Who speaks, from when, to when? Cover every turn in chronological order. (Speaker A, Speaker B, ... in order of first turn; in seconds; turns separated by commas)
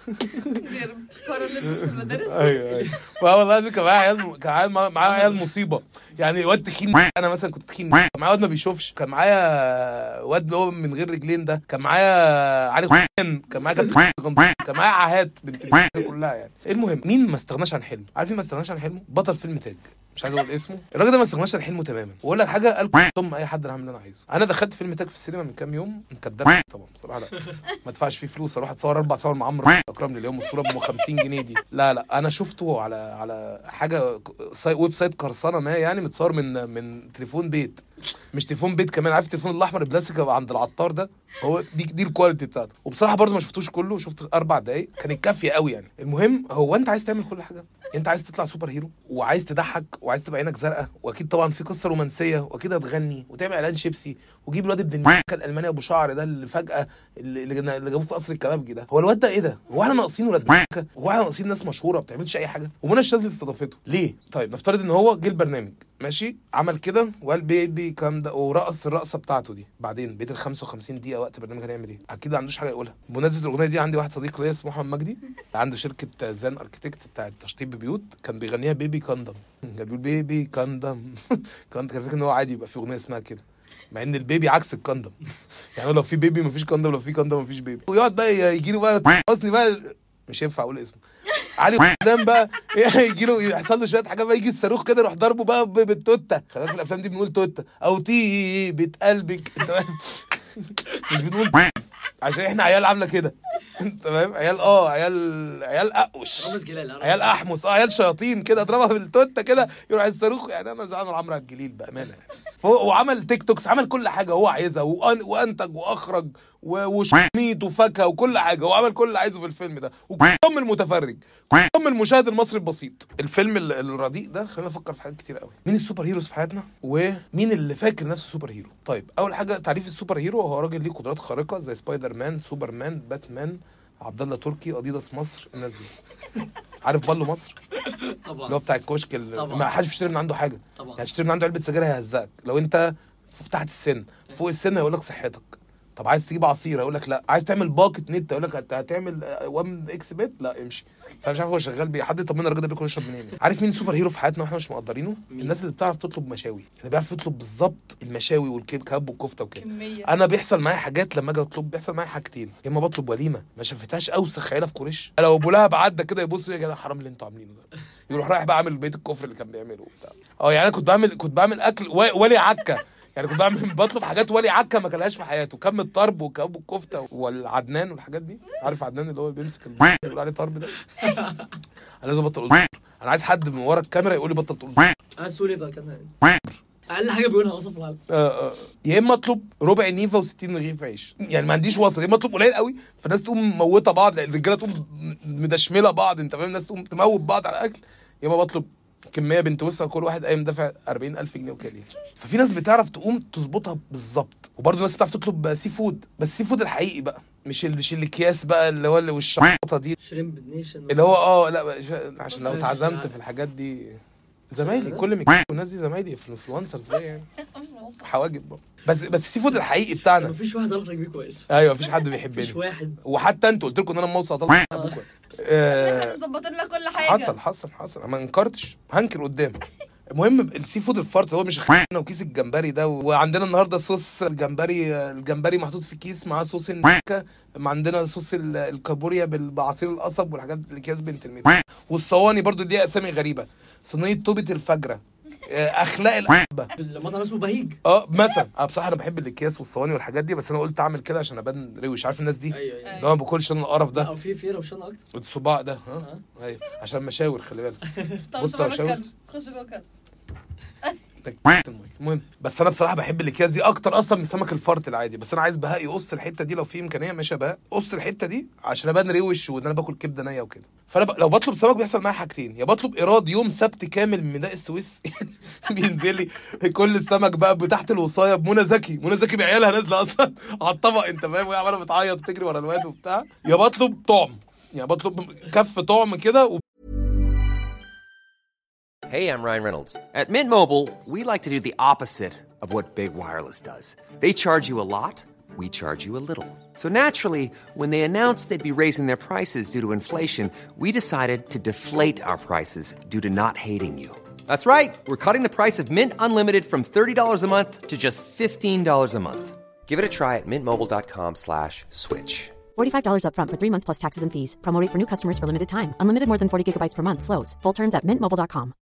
Speaker A: 0.6-2.5, Speaker B: 1.6-85.2, Speaker C: 2.7-3.0, Speaker C: 5.0-5.4, Speaker B: 85.8-91.0, Speaker B: 91.6-135.9, Speaker C: 106.4-107.4, Speaker B: 136.8-137.6, Speaker C: 138.1-138.6, Speaker B: 138.4-180.7, Speaker C: 139.3-139.7, Speaker C: 140.8-141.1, Speaker C: 155.3-155.6, Speaker A: 159.6-160.0, Speaker C: 181.0-181.5, Speaker B: 182.0-184.9, Speaker C: 185.2-186.1, Speaker C: 186.9-188.0, Speaker B: 188.1-209.9, Speaker C: 210.0-211.2, Speaker B: 210.9-214.0, Speaker C: 212.4-213.2, Speaker B: 214.5-217.3, Speaker C: 214.6-215.1, Speaker A: 217.6-218.1, Speaker B: 218.0-220.3, Speaker C: 220.2-221.4, Speaker B: 221.5-226.2, Speaker C: 222.3-223.0, Speaker C: 224.7-225.0, Speaker A: 225.7-227.3, Speaker B: 227.0-229.6, Speaker B: 230.1-246.7, Speaker C: 246.7-247.8, Speaker B: 247.8-254.1, Speaker C: 252.5-252.9, Speaker A: 252.9-253.1, Speaker C: 253.9-255.0, Speaker B: 255.1-257.8, Speaker C: 257.9-258.2, Speaker A: 258.3-259.8, Speaker B: 258.4-259.0, Speaker B: 261.2-286.6, Speaker D: 289.1-312.6, Speaker E: 312.7-318.7